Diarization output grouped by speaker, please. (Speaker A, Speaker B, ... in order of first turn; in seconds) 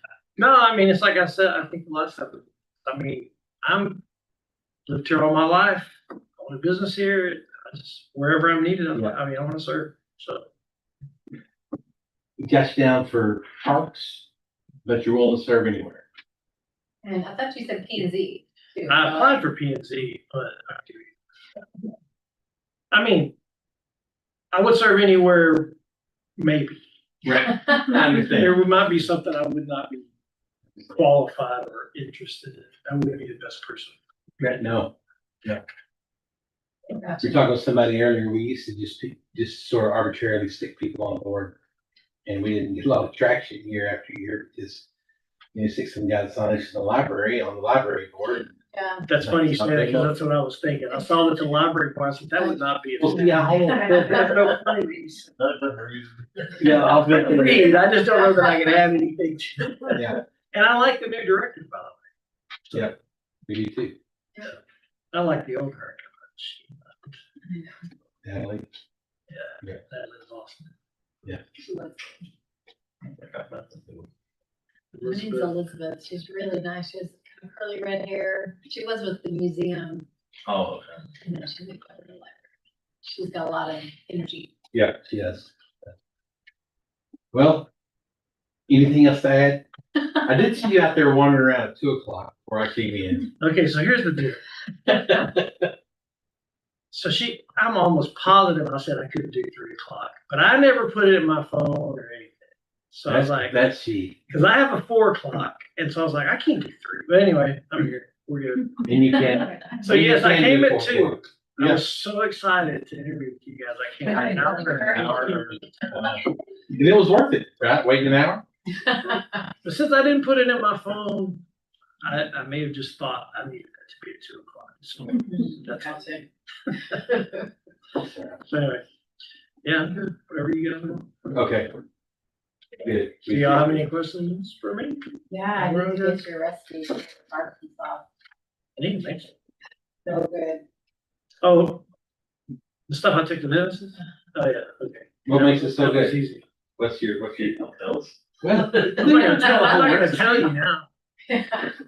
Speaker A: 0.4-4.0, 4.9-10.5, 18.9-21.1, 22.9-23.3, 24.5-25.7, 26.4-26.8, 28.1-30.1, 30.9-34.0, 49.0-55.3, 56.6-62.0, 62.7-62.9, 65.1-67.2, 69.3-70.7, 74.9-75.6, 93.4-95.3, 96.9-102.4, 102.9-103.7, 104.3-109.2, 109.8-115.5, 119.6-121.4, 122.0-126.3, 128.5-128.8, 129.6-131.6, 133.3-136.3, 138.8-139.3, 141.4-141.8, 142.9-146.4, 148.8-150.8
Speaker B: 12.4-14.3, 14.8-16.0, 27.2-28.6, 34.4-34.9, 37.2-41.5, 42.2-44.9, 45.5-48.5, 49.2-50.1, 53.0-54.4, 56.6-57.8, 59.9-60.2, 63.5-63.9, 68.2-68.7, 84.7-85.9, 87.3-87.7, 88.7-89.7, 90.2-93.3, 103.1-104.2, 108.8-111.8, 115.9-118.4, 128.0-128.4, 131.3-131.7, 132.8-133.8, 145.2-146.2, 146.8-147.5, 148.4-150.5
Speaker C: 17.0-19.4, 36.9-37.4, 48.7-49.0, 53.7-54.0, 67.4-67.7, 71.6-72.2, 75.0-80.0, 81.2-82.4, 83.0-84.5, 108.9-109.8, 114.0-115.4, 118.8-119.5, 125.1-126.2, 126.9-127.5, 135.3-138.0, 140.1-140.6, 151.3-151.7
Speaker D: 55.4-56.5, 73.2-74.1, 80.5-80.9, 114.8-115.5, 147.2-148.2